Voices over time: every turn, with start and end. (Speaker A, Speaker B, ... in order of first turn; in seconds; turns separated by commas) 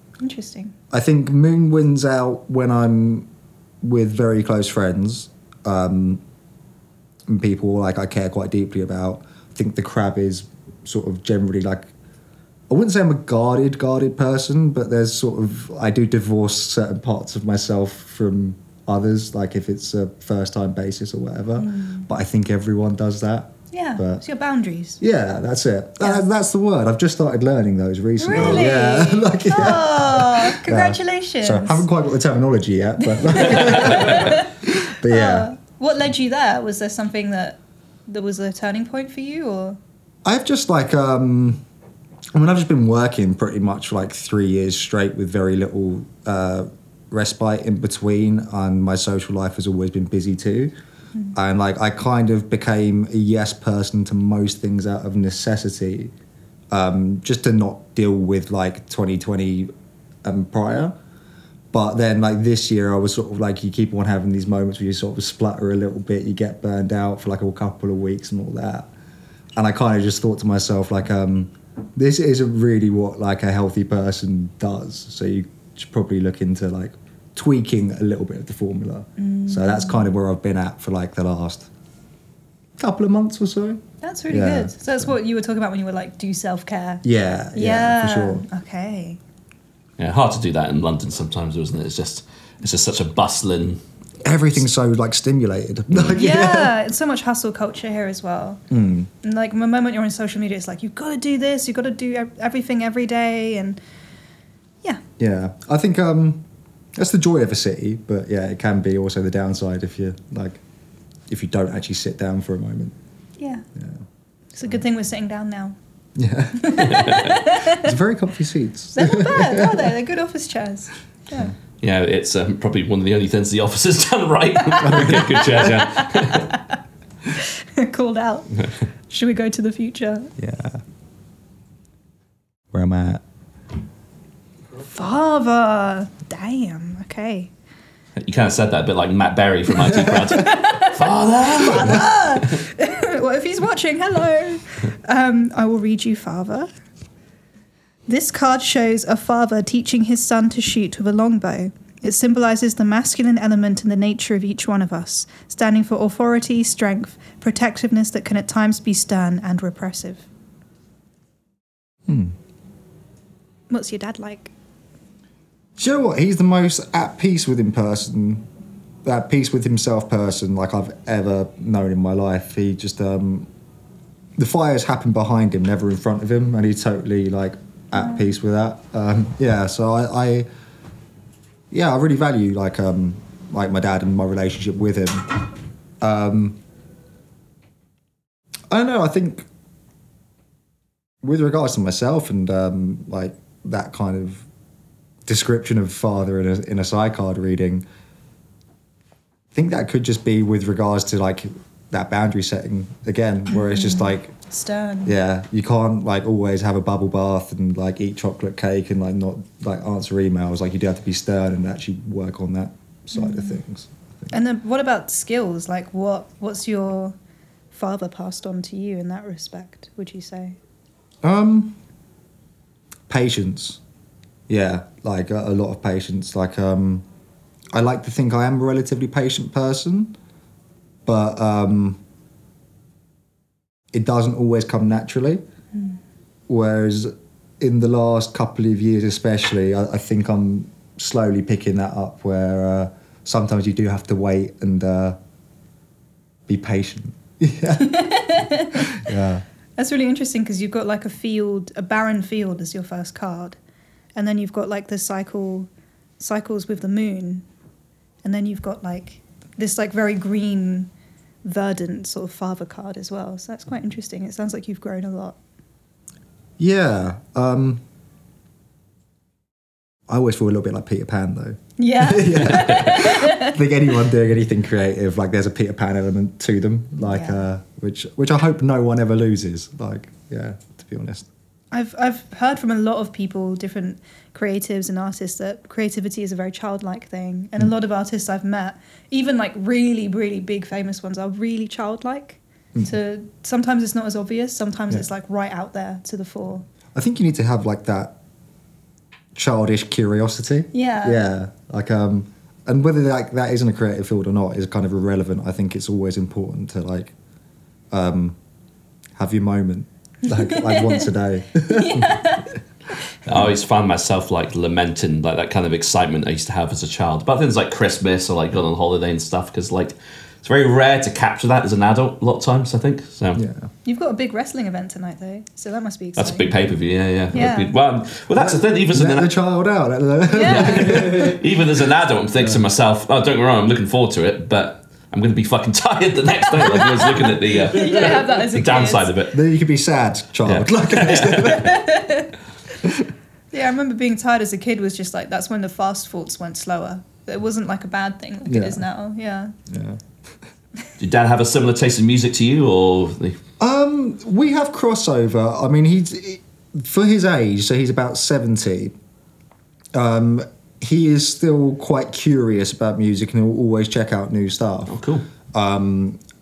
Speaker A: 0.2-0.7, Speaker B: 0.9-3.3, Speaker B: 3.8-6.2, Speaker B: 7.3-11.9, Speaker B: 12.7-24.2, Speaker A: 21.6-22.1, Speaker A: 23.7-25.0, Speaker B: 25.0-35.5, Speaker A: 28.2-31.9, Speaker A: 33.1-39.8, Speaker B: 40.2-41.6, Speaker B: 42.3-50.7, Speaker B: 51.3-56.1, Speaker B: 56.7-59.7, Speaker B: 60.2-61.0, Speaker B: 61.7-68.9, Speaker B: 69.5-81.7, Speaker A: 79.2-80.0, Speaker B: 82.8-85.1, Speaker A: 84.0-89.2, Speaker B: 87.0-88.4, Speaker C: 90.0-93.8, Speaker B: 94.2-96.7, Speaker A: 96.1-98.6, Speaker B: 98.7-99.1, Speaker A: 99.2-103.8, Speaker B: 105.2-110.6, Speaker B: 111.3-113.0, Speaker A: 113.4-113.7, Speaker B: 113.7-114.0, Speaker A: 114.5-115.8, Speaker B: 116.2-119.9, Speaker A: 116.6-117.8, Speaker A: 118.9-121.5, Speaker C: 121.8-126.5, Speaker A: 124.7-126.6, Speaker B: 124.8-125.7, Speaker A: 127.4-128.5, Speaker A: 129.1-130.3, Speaker B: 130.4-130.8, Speaker B: 132.7-133.2, Speaker A: 134.8-137.5, Speaker C: 138.2-142.5, Speaker A: 140.4-146.7, Speaker A: 148.1-160.3, Speaker B: 162.1-162.3, Speaker A: 163.7-164.5, Speaker B: 165.8-168.4, Speaker B: 169.0-173.5, Speaker B: 174.4-180.5, Speaker B: 181.7-185.3, Speaker B: 186.0-186.6, Speaker B: 188.7-189.5, Speaker B: 191.2-194.5, Speaker B: 195.2-197.8, Speaker B: 199.5-204.3, Speaker A: 203.5-205.1, Speaker B: 205.0-214.3, Speaker A: 213.1-213.6, Speaker A: 214.3-217.1, Speaker A: 217.7-220.6, Speaker B: 221.2-221.8, Speaker B: 223.1-223.8, Speaker B: 224.5-227.0, Speaker B: 227.7-230.2, Speaker B: 231.1-232.0, Speaker B: 233.9-235.4, Speaker B: 236.5-245.2, Speaker B: 246.5-249.4, Speaker A: 247.7-248.9, Speaker A: 249.8-253.6, Speaker A: 254.1-257.4, Speaker A: 258.2-260.9, Speaker A: 261.4-265.4, Speaker B: 266.6-267.8, Speaker B: 270.1-281.3, Speaker A: 271.8-273.6, Speaker A: 277.0-277.4, Speaker A: 281.7-296.6, Speaker B: 296.9-298.1, Speaker B: 299.3-307.1, Speaker A: 300.7-301.2, Speaker B: 307.9-308.4, Speaker B: 309.1-312.1, Speaker A: 310.3-311.1, Speaker A: 311.6-312.5, Speaker C: 313.2-323.4, Speaker B: 323.3-323.7, Speaker A: 323.8-326.6, Speaker C: 326.2-329.3, Speaker A: 327.3-327.7, Speaker B: 328.4-331.4, Speaker A: 330.3-331.3, Speaker C: 330.4-339.3, Speaker A: 337.7-339.1, Speaker B: 339.3-342.0, Speaker C: 340.4-341.5, Speaker A: 341.4-342.3, Speaker A: 343.5-349.6, Speaker B: 348.5-348.8, Speaker B: 349.7-350.1, Speaker C: 351.0-353.4, Speaker B: 353.6-358.9, Speaker B: 359.9-365.0, Speaker C: 364.9-365.2, Speaker B: 365.5-366.2